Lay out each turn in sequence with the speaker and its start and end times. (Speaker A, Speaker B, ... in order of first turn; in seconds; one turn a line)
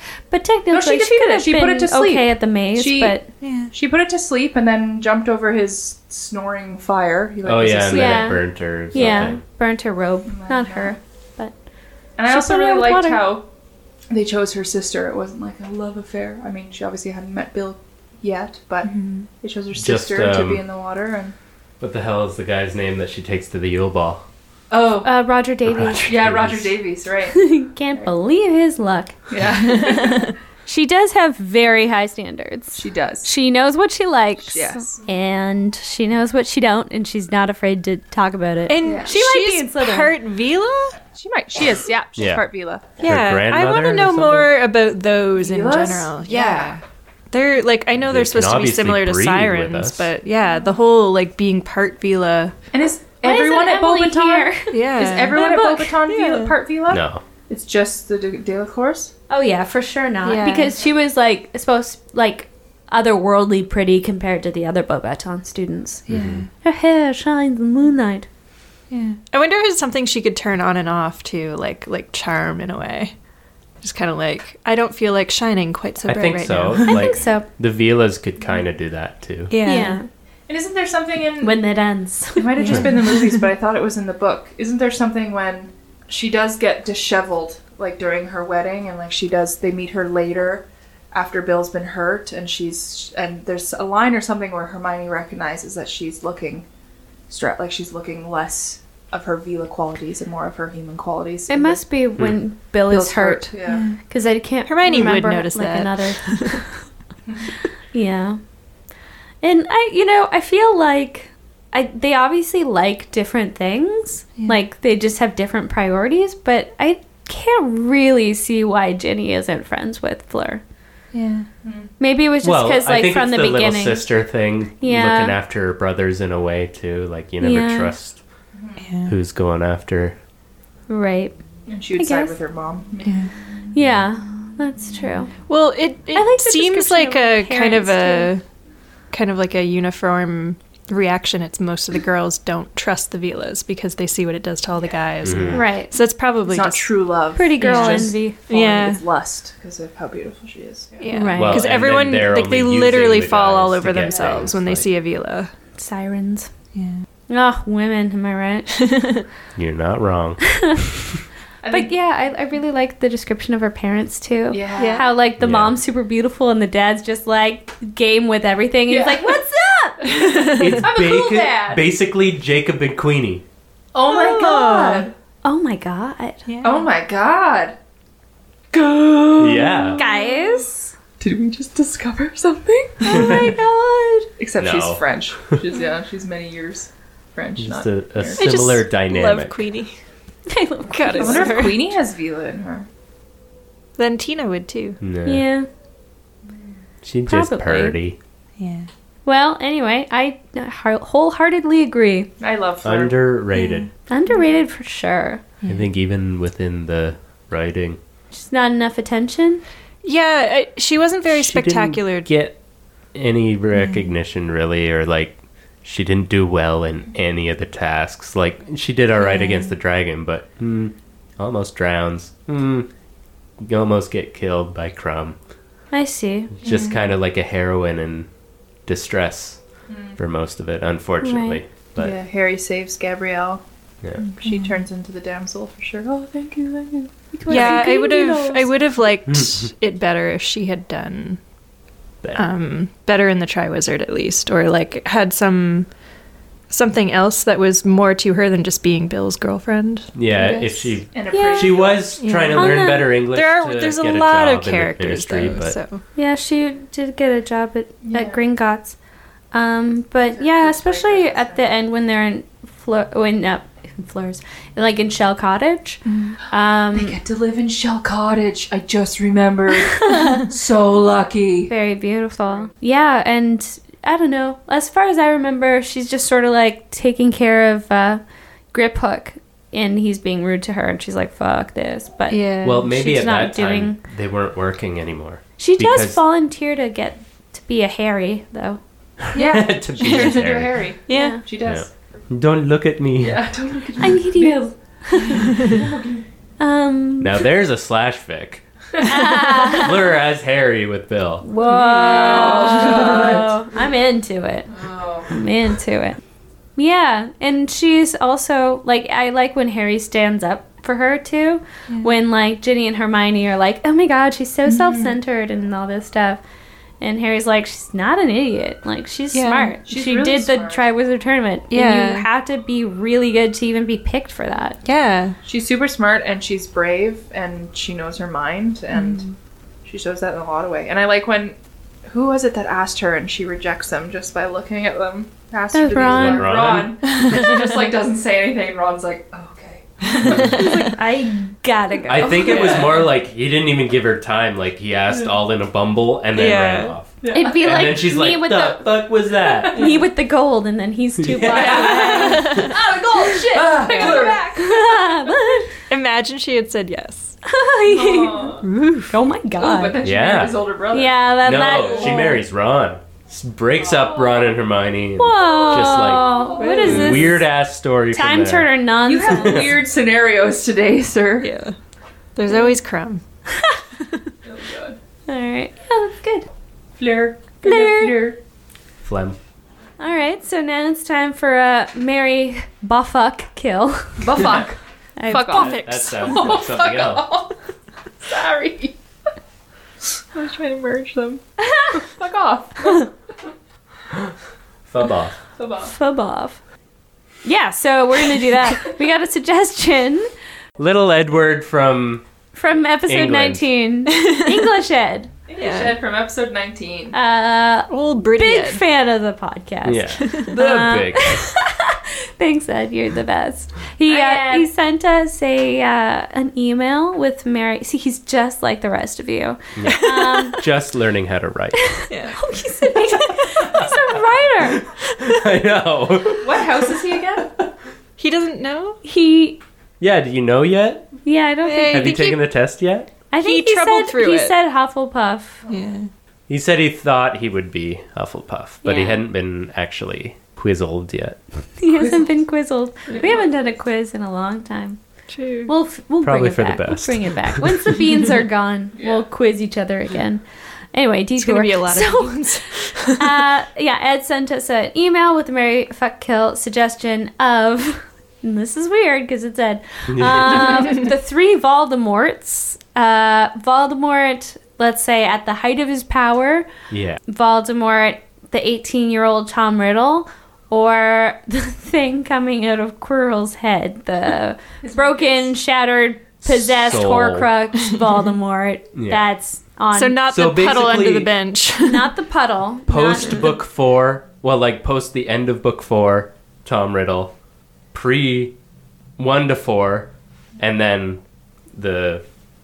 Speaker A: 0.3-3.3
Speaker B: 0.7-8.4
Speaker C: 3.4-3.7
Speaker D: 7.4-9.4
Speaker A: 7.9-11.5
Speaker B: 8.9-9.4
Speaker B: 10.3-11.0
Speaker B: 12.2-13.5
Speaker A: 12.3-13.3
Speaker B: 14.1-21.4
Speaker C: 18.8-19.3
Speaker D: 19.7-20.6
Speaker D: 21.8-24.2
Speaker B: 24.7-25.1
Speaker A: 25.0-26.1
Speaker D: 25.7-26.8
Speaker B: 26.1-28.1
Speaker A: 27.3-29.1
Speaker B: 29.3-30.4
Speaker C: 29.5-30.3
Speaker A: 30.7-40.1
Speaker B: 32.8-33.3
Speaker B: 34.4-35.0
Speaker C: 38.7-41.0
Speaker B: 38.8-39.2
Speaker B: 41.1-42.9
Speaker D: 42.2-42.5
Speaker D: 43.0-44.6
Speaker C: 43.0-52.5
Speaker B: 45.4-46.8
Speaker D: 48.0-50.1
Speaker B: 52.7-59.1
Speaker A: 53.2-56.0
Speaker C: 54.7-55.5
Speaker C: 56.1-56.6
Speaker D: 56.9-57.2
Speaker A: 59.3-66.0
Speaker C: 60.2-60.8
Speaker C: 66.1-66.5
Speaker D: 66.1-66.5
Speaker A: 66.6-68.3
Speaker C: 68.9-73.1
Speaker C: 73.8-77.0
Speaker D: 76.0-79.5
Speaker A: 76.8-77.5
Speaker C: 79.5-80.0
Speaker A: 79.6-80.1
Speaker B: 80.5-81.7
Speaker A: 81.4-82.9
Speaker B: 82.3-96.7
Speaker C: 82.6-83.4
Speaker B: 97.3-101.8
Speaker A: 101.5-106.8
Speaker B: 102.9-103.9
Speaker C: 103.7-104.0
Speaker C: 104.7-106.7
Speaker A: 107.9-108.4
Speaker A: 109.4-120.6
Speaker C: 121.1-121.5
Speaker B: 121.6-121.9
Speaker A: 122.0-124.2
Speaker D: 122.4-128.2
Speaker A: 124.8-125.4
Speaker A: 127.4-128.0
Speaker B: 128.6-128.8
Speaker C: 128.8-129.1
Speaker D: 129.1-130.2
Speaker A: 130.9-131.4
Speaker B: 131.7-133.3
Speaker A: 131.9-132.4
Speaker C: 133.0-133.3
Speaker A: 133.7-135.3
Speaker C: 135.5-138.4
Speaker A: 136.1-138.3
Speaker C: 139.1-147.0
Speaker B: 144.8-145.6
Speaker D: 145.2-145.7
Speaker A: 145.5-145.9
Speaker B: 146.5-151.1
Speaker A: 147.3-148.4
Speaker C: 147.6-149.0
Speaker C: 151.0-155.5
Speaker A: 151.1-151.7
Speaker D: 151.4-154.9
Speaker B: 154.0-154.5
Speaker A: 155.8-156.5
Speaker C: 156.7-157.0
Speaker A: 157.3-158.8
Speaker C: 158.9-159.2
Speaker D: 159.6-160.9
Speaker B: 161.6-161.9
Speaker A: 161.7-170.3
Speaker B: 164.5-165.1
Speaker C: 164.8-165.1
Speaker D: 165.4-165.8
Speaker B: 168.9-169.4
Speaker B: 170.0-171.9
Speaker C: 170.2-170.7
Speaker D: 170.6-173.4
Speaker B: 173.9-175.1
Speaker C: 174.1-175.1
Speaker A: 175.4-176.4
Speaker C: 176.5-176.9
Speaker B: 176.6-177.8
Speaker B: 178.7-180.7
Speaker D: 179.4-180.0
Speaker A: 179.9-180.9
Speaker B: 181.2-183.4
Speaker A: 183.0-184.3
Speaker D: 183.1-183.4
Speaker B: 184.4-188.5
Speaker D: 184.6-185.1
Speaker D: 187.6-189.6
Speaker C: 188.4-190.0
Speaker A: 190.5-191.7
Speaker C: 190.9-191.9
Speaker B: 191.2-192.9
Speaker C: 194.0-195.0
Speaker D: 195.0-195.4
Speaker A: 195.3-195.7
Speaker D: 197.0-198.2
Speaker A: 197.3-198.0
Speaker C: 198.6-198.9
Speaker A: 199.3-202.3
Speaker B: 202.4-203.2
Speaker D: 202.8-203.9
Speaker C: 203.5-203.9
Speaker A: 204.1-205.4
Speaker C: 205.6-205.9
Speaker D: 205.7-208.0
Speaker A: 208.3-209.6
Speaker C: 210.0-212.3
Speaker D: 211.3-212.6
Speaker D: 213.1-222.9
Speaker C: 213.7-214.1
Speaker D: 223.6-225.4
Speaker A: 225.9-226.5
Speaker D: 226.6-228.3
Speaker D: 228.9-229.6
Speaker B: 229.9-230.2
Speaker D: 230.2-232.2
Speaker A: 231.2-231.6
Speaker B: 232.0-233.6
Speaker C: 234.4-234.8
Speaker B: 234.4-237.9
Speaker A: 237.3-238.7
Speaker C: 237.5-241.4
Speaker D: 239.3-239.7
Speaker C: 242.3-245.9
Speaker C: 246.7-250.1
Speaker D: 250.2-255.8
Speaker B: 250.3-252.2
Speaker A: 251.3-252.0
Speaker C: 252.2-256.0
Speaker A: 252.5-253.1
Speaker A: 256.1-259.0
Speaker B: 258.0-258.4
Speaker A: 259.5-267.2
Speaker B: 260.3-261.6
Speaker C: 266.1-266.4
Speaker B: 266.9-271.7
Speaker A: 269.9-270.4
Speaker A: 271.7-284.0
Speaker C: 282.3-282.9
Speaker D: 282.6-286.2
Speaker A: 285.6-288.8
Speaker D: 289.3-290.9
Speaker B: 289.4-291.9
Speaker C: 290.0-290.5
Speaker C: 291.1-291.4
Speaker A: 291.1-291.4
Speaker D: 291.6-293.5
Speaker B: 293.2-296.2
Speaker A: 294.0-295.5
Speaker A: 296.6-297.4
Speaker D: 297.2-298.6
Speaker A: 299.1-299.9
Speaker B: 299.1-299.6
Speaker D: 299.6-301.4
Speaker A: 301.4-304.7
Speaker B: 301.6-303.5
Speaker C: 301.7-303.1
Speaker B: 304.7-305.3
Speaker A: 305.3-306.2
Speaker A: 306.8-316.4
Speaker A: 317.0-324.8
Speaker C: 319.3-319.8
Speaker B: 319.9-320.9
Speaker C: 321.7-322.3
Speaker C: 324.9-325.4
Speaker B: 325.4-329.2
Speaker C: 328.9-329.3
Speaker B: 329.9-340.9
Speaker A: 335.7-336.5
Speaker D: 335.9-337.2
Speaker C: 337.2-337.7
Speaker D: 340.2-340.6
Speaker C: 340.2-340.8
Speaker A: 340.6-342.8
Speaker D: 342.1-350.0
Speaker B: 342.2-343.1
Speaker B: 345.1-345.4
Speaker C: 346.3-347.0
Speaker B: 347.2-348.0
Speaker A: 347.3-349.2
Speaker B: 349.5-350.0
Speaker A: 349.7-352.6
Speaker D: 351.2-352.7
Speaker B: 351.4-355.6
Speaker C: 351.8-352.8
Speaker D: 353.5-354.3
Speaker C: 353.8-354.4
Speaker A: 354.6-355.7
Speaker C: 355.9-357.4
Speaker A: 357.4-360.0
Speaker B: 357.9-358.7
Speaker C: 358.6-359.1
Speaker B: 359.6-362.2
Speaker D: 360.0-360.6
Speaker A: 360.9-362.4
Speaker D: 361.4-368.7
Speaker B: 363.8-364.5
Speaker A: 365.2-367.4
Speaker B: 365.6-367.1
Speaker C: 366.6-367.4
Speaker A: 368.1-369.7
Speaker B: 369.1-371.5
Speaker D: 369.2-369.7
Speaker C: 371.4-371.8
Speaker C: 372.4-373.2
Speaker A: 373.5-373.8
Speaker B: 374.4-375.0
Speaker A: 375.3-376.5
Speaker B: 377.0-378.4
Speaker A: 377.6-378.2
Speaker D: 379.0-379.4
Speaker A: 380.0-384.5
Speaker B: 384.2-387.5
Speaker A: 385.2-385.8
Speaker C: 385.3-386.5
Speaker D: 385.5-387.4
Speaker B: 388.2-389.0
Speaker B: 390.3-393.1
Speaker A: 391.6-392.0
Speaker D: 394.9-395.4
Speaker B: 395.6-395.9
Speaker A: 395.8-396.6
Speaker A: 397.4-400.3
Speaker D: 400.8-402.3
Speaker A: 402.5-405.3
Speaker D: 403.1-403.7
Speaker B: 405.5-407.2
Speaker C: 405.6-406.0
Speaker A: 407.1-420.6
Speaker C: 407.9-408.8
Speaker D: 409.9-411.5
Speaker B: 414.1-414.7
Speaker D: 419.8-421.9
Speaker C: 419.9-420.6
Speaker A: 421.9-424.8
Speaker C: 422.1-422.6
Speaker D: 423.7-427.0
Speaker B: 426.4-427.5
Speaker C: 428.2-429.0
Speaker A: 429.0-429.6
Speaker D: 430.0-431.1
Speaker A: 431.2-432.4
Speaker C: 431.6-432.4
Speaker D: 431.9-433.1
Speaker A: 433.3-435.6
Speaker C: 433.4-434.6
Speaker C: 435.7-436.1
Speaker D: 436.5-441.4
Speaker A: 438.8-439.2
Speaker A: 441.8-445.0
Speaker B: 441.9-442.3
Speaker B: 443.1-443.7
Speaker C: 445.3-445.7
Speaker A: 445.7-450.4
Speaker D: 446.2-448.0
Speaker B: 449.0-449.2
Speaker A: 450.9-466.7
Speaker C: 451.4-453.4
Speaker D: 460.1-460.9
Speaker D: 466.9-467.2
Speaker A: 467.3-480.2
Speaker B: 474.8-475.5
Speaker D: 476.4-477.5
Speaker D: 479.0-479.2
Speaker C: 479.9-482.1
Speaker D: 480.3-481.3
Speaker A: 481.8-483.5
Speaker D: 482.9-487.3
Speaker D: 487.9-488.6
Speaker D: 489.2-491.2
Speaker D: 491.7-492.3